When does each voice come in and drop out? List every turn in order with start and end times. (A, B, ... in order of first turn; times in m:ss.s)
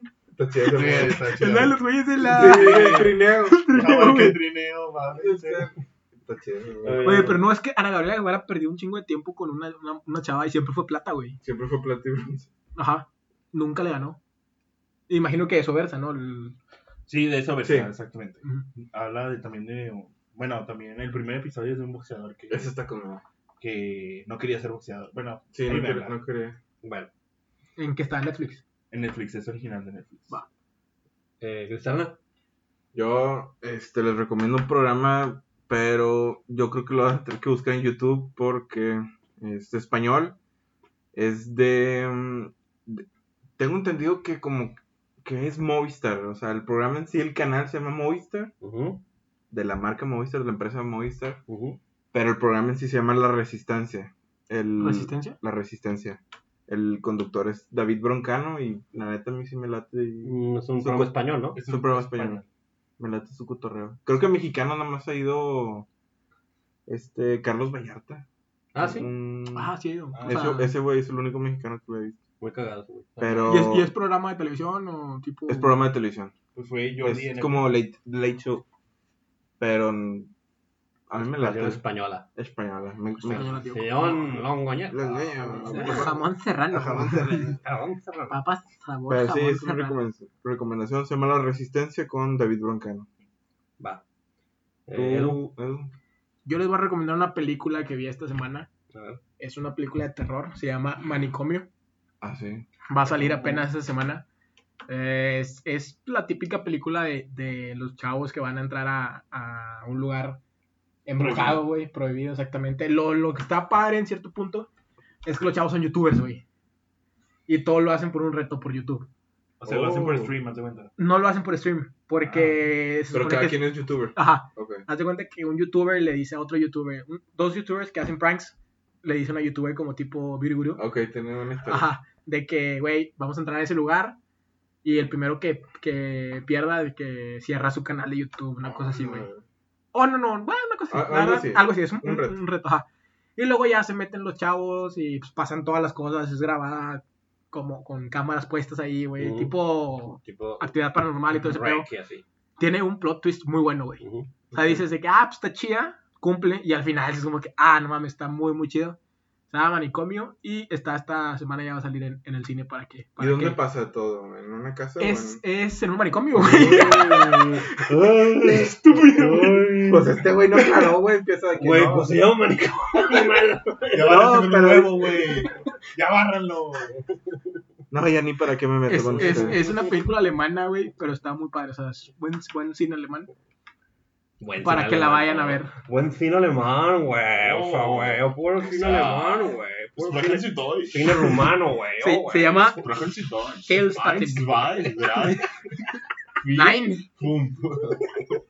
0:00.4-0:01.7 A
0:00.6-0:03.2 B
0:01.3-0:04.4 C
0:02.2-0:04.3 A
0:03.7-0:05.7 B
0:05.2-0:07.3 A
0:06.8-0:07.4 D
0:07.0-0:11.4 C
0:11.4-0:12.5 A
0:12.8-0:14.2 C
0:15.1-0:16.6 C
0:17.1-0:22.7 B
0:17.6-0:17.9 A
0:22.5-0:23.2 A
0:23.6-0:26.2 B
0:25.5-0:26.6 A
0:26.8-0:27.1 D
0:27.8-0:28.6 C
0:28.9-0:30.3 B
0:31.4-0:32.2 D
0:32.9-0:40.4 A
0:41.1-0:43.0 A
0:43.6-0:48.5 A
0:48.6-0:49.0 D
0:49.5-0:51.4 A
0:51.5-0:51.8 D
0:52.1-1:02.4 A
0:54.8-0:55.4 C
1:00.2-1:01.6 D
1:01.5-1:02.4 B
1:03.0-1:05.9 A
1:06.9-1:08.2 A
1:08.7-1:09.1 D
1:08.8-1:12.2 A
1:09.6-1:10.7 C
1:10.1-1:10.6 B
1:12.4-1:13.1 D
1:13.2-1:13.6 B
1:13.2-1:13.9 A
1:13.5-1:15.8 C
1:15.5-1:16.3 A
1:16.6-1:17.7 B
1:17.0-1:18.6 A
1:19.6-1:20.3 A
1:21.1-1:23.6 A
1:21.2-1:22.3 D
1:23.2-1:24.4 C
1:23.7-1:26.2 D
1:24.9-1:26.2 A
1:25.6-1:27.6 C
1:26.7-1:27.3 A
1:26.9-1:27.4 B
1:27.0-1:28.4 D
1:28.3-1:30.0 C
1:29.1-1:33.1 A
1:33.8-1:34.0 D
1:34.9-1:35.4 D
1:34.9-1:35.9 A
1:36.5-1:38.7 C
1:38.9-1:39.2 D
1:39.4-1:41.7 C
1:42.2-1:43.6 A
1:42.9-1:44.2 C
1:44.9-1:50.4 C
1:51.1-1:54.7 C
1:51.2-1:51.6 B
1:55.2-1:56.4 C
1:57.5-1:59.1 C
1:59.6-2:00.9 B
1:59.6-2:00.4 A
2:01.0-2:10.8 C
2:02.3-2:02.5 A
2:03.1-2:04.9 A
2:10.8-2:11.9 A
2:11.7-2:14.2 C
2:14.8-2:19.3 C
2:18.6-2:19.4 A
2:19.9-2:22.9 C
2:20.9-2:22.4 A
2:23.4-2:31.9 C
2:29.2-2:29.6 D
2:30.2-2:30.7 D
2:31.3-2:32.2 D
2:32.6-2:39.0 C
2:34.0-2:34.8 D
2:39.5-2:43.6 C
2:43.2-2:45.4 A
2:45.0-2:47.8 C
2:46.4-2:47.8 A
2:47.9-2:50.1 B
2:48.4-2:49.8 C
2:49.8-2:52.2 A
2:50.6-2:50.9 C
2:51.6-2:54.3 D
2:53.9-2:57.0 B
2:54.0-2:55.2 A
2:57.9-2:59.6 A
2:58.9-3:03.3 C
2:59.2-3:00.0 D
3:04.4-3:12.8 D
3:04.6-3:05.7 C
3:07.4-3:11.5 B
3:12.0-3:12.8 C
3:12.7-3:15.6 B
3:13.6-3:14.9 C
3:16.4-3:18.2 B
3:16.5-3:17.1 C